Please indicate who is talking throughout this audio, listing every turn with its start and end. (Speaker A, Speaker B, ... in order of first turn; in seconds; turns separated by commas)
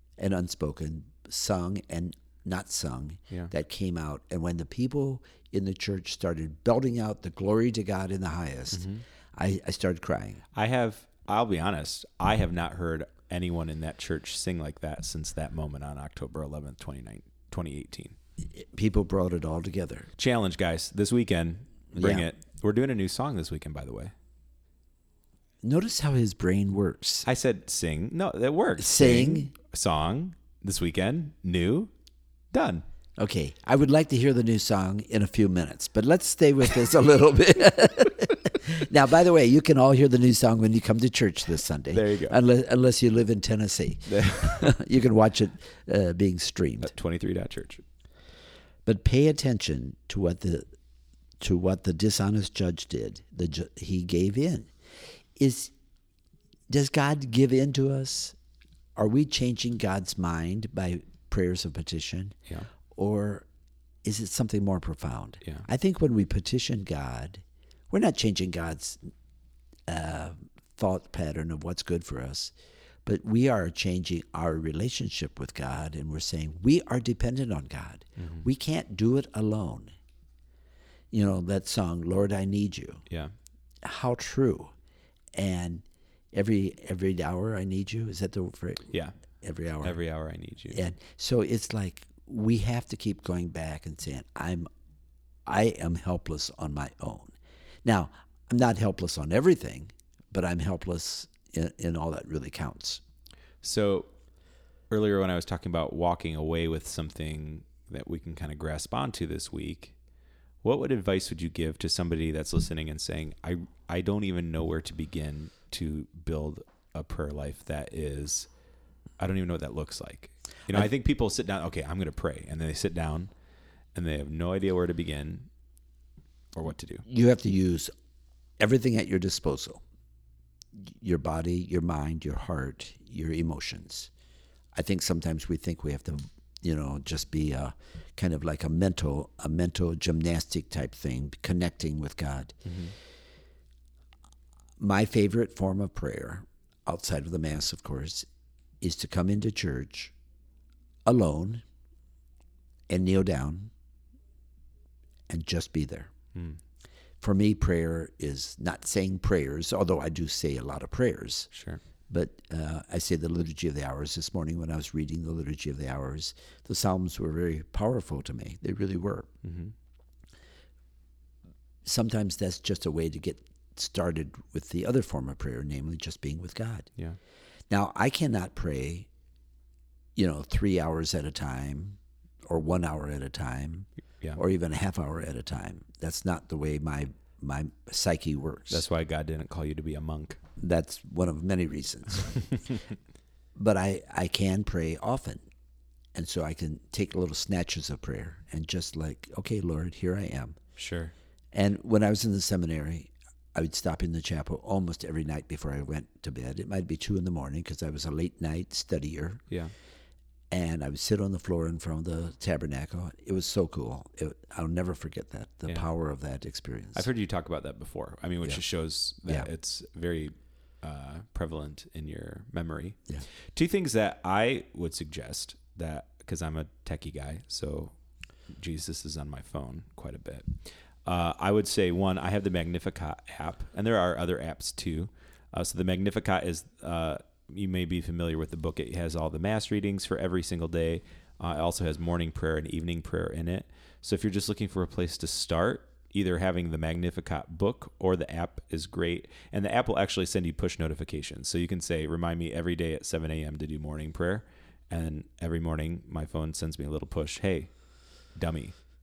Speaker A: 0.2-10.4, Speaker B: 8.7-9.0, Speaker B: 10.5-18.1, Speaker A: 18.6-20.1, Speaker B: 20.2-24.1, Speaker A: 21.9-22.3, Speaker A: 25.6-27.3, Speaker B: 27.2-31.9, Speaker A: 28.8-29.5, Speaker B: 32.5-32.8, Speaker A: 33.2-46.9, Speaker B: 41.9-42.4, Speaker B: 44.1-44.7, Speaker B: 46.8-47.8, Speaker A: 48.9-50.7, Speaker A: 51.4-54.7, Speaker A: 55.4-55.7, Speaker A: 56.7-58.3, Speaker A: 59.0-62.4, Speaker A: 62.9-63.4, Speaker A: 64.0-69.0, Speaker A: 69.9-72.5, Speaker A: 73.0-79.9, Speaker B: 78.2-78.5, Speaker A: 81.1-83.0, Speaker A: 83.8-84.7, Speaker A: 85.3-88.9, Speaker A: 89.4-90.0, Speaker B: 89.8-90.8, Speaker A: 90.7-94.7, Speaker A: 95.5-103.0, Speaker B: 103.6-104.1, Speaker B: 104.9-109.9, Speaker B: 110.6-118.5, Speaker B: 119.2-123.3, Speaker B: 123.9-125.5, Speaker B: 126.5-127.0, Speaker A: 127.1-127.9, Speaker A: 128.6-129.8, Speaker A: 130.9-134.1, Speaker A: 134.7-142.6, Speaker B: 142.7-142.9, Speaker A: 144.8-148.3, Speaker A: 148.8-150.1, Speaker A: 151.1-151.6, Speaker A: 152.9-153.7, Speaker A: 155.3-156.1, Speaker A: 157.2-161.5, Speaker B: 161.5-161.8, Speaker A: 162.1-169.3, Speaker B: 169.4-169.7, Speaker A: 171.8-176.9, Speaker A: 177.7-179.1, Speaker A: 180.2-188.8, Speaker B: 188.7-190.4, Speaker A: 190.6-192.4, Speaker A: 193.6-195.4, Speaker A: 196.1-200.6, Speaker B: 200.8-201.1, Speaker A: 201.5-209.4, Speaker A: 210.5-217.0, Speaker B: 216.9-223.0, Speaker B: 223.5-227.9, Speaker B: 228.5-257.7, Speaker B: 258.3-258.7